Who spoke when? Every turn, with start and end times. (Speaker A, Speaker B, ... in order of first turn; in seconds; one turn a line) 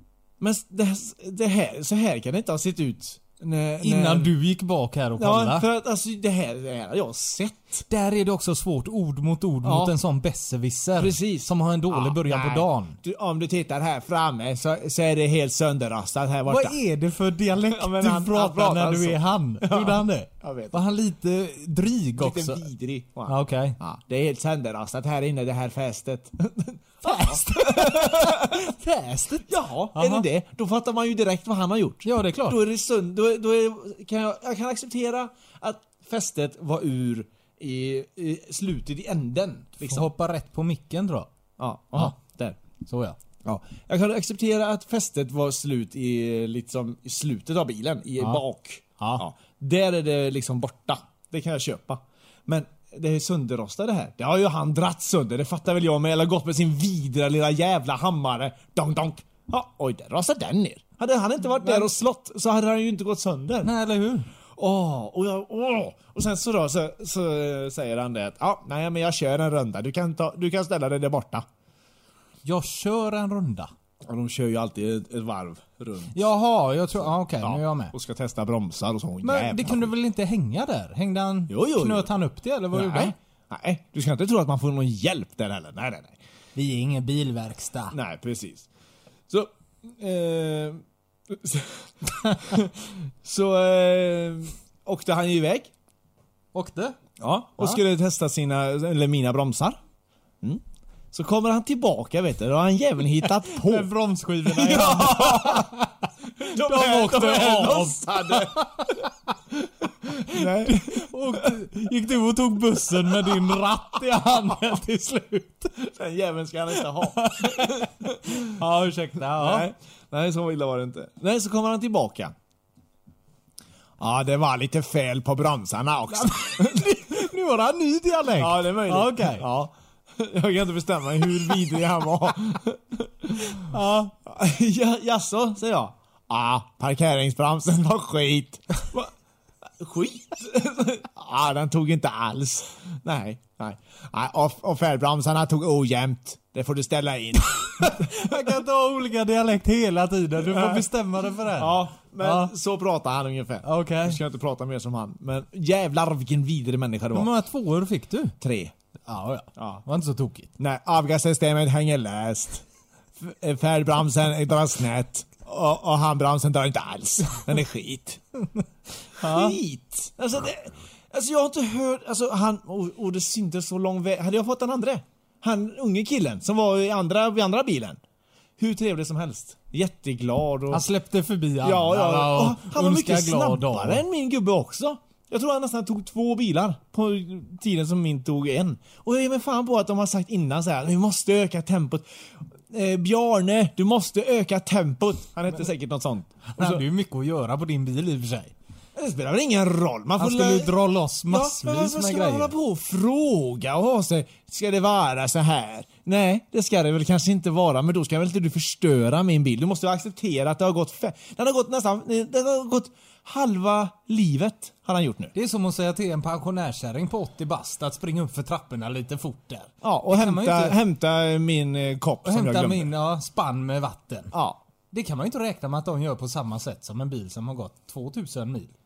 Speaker A: 0.4-4.3
Speaker B: 3.8-5.6
Speaker A: 5.2-7.8
Speaker B: 7.9-12.9
Speaker A: 9.6-10.0
Speaker A: 10.9-16.8
Speaker B: 16.5-22.6
Speaker A: 17.6-20.8
Speaker A: 22.1-28.7
Speaker B: 23.3-23.7
Speaker B: 27.1-28.1
Speaker B: 28.8-29.4
Speaker A: 29.4-40.1
Speaker B: 29.9-30.2
Speaker B: 32.1-32.4
Speaker B: 39.9-41.3
Speaker A: 41.6-42.6
Speaker B: 42.9-43.1
Speaker A: 43.4-63.7
Speaker B: 63.7-64.2
Speaker A: 64.5-71.5
Speaker B: 72.5-73.7
Speaker A: 74.0-76.2
Speaker B: 76.3-77.9
Speaker A: 76.9-79.9
Speaker B: 79.2-83.1
Speaker A: 81.5-82.1
Speaker A: 82.7-86.2
Speaker B: 86.6-87.9
Speaker A: 87.9-88.7
Speaker A: 89.3-91.9
Speaker A: 92.4-92.7
Speaker A: 93.2-95.7
Speaker B: 96.5-96.9
Speaker A: 97.2-99.8
Speaker A: 100.4-105.7
Speaker B: 103.5-105.6
Speaker A: 106.4-108.7
Speaker B: 106.7-108.0
Speaker A: 110.3-111.5
Speaker B: 111.3-115.5
Speaker A: 112.8-113.6
Speaker A: 115.8-118.4
Speaker B: 118.7-119.6
Speaker A: 119.2-122.3
Speaker A: 124.0-127.3
Speaker B: 127.4-129.4
Speaker A: 128.4-133.6
Speaker A: 134.2-139.1
Speaker A: 139.8-148.6
Speaker B: 148.4-151.7
Speaker A: 150.4-150.9
Speaker A: 151.5-157.3
Speaker B: 157.2-158.3
Speaker A: 158.4-158.7
Speaker B: 159.1-160.4
Speaker A: 159.6-159.8
Speaker A: 160.6-162.6
Speaker A: 163.2-168.2
Speaker A: 169.2-178.0
Speaker A: 178.6-180.9
Speaker B: 180.7-184.0
Speaker A: 181.6-192.1
Speaker A: 192.7-196.8
Speaker B: 196.6-198.5
Speaker A: 198.9-215.3
Speaker B: 200.2-202.5
Speaker B: 215.4-219.5
Speaker A: 219.8-222.9
Speaker B: 220.1-220.7
Speaker B: 222.5-224.2
Speaker A: 224.3-224.6
Speaker B: 224.9-228.7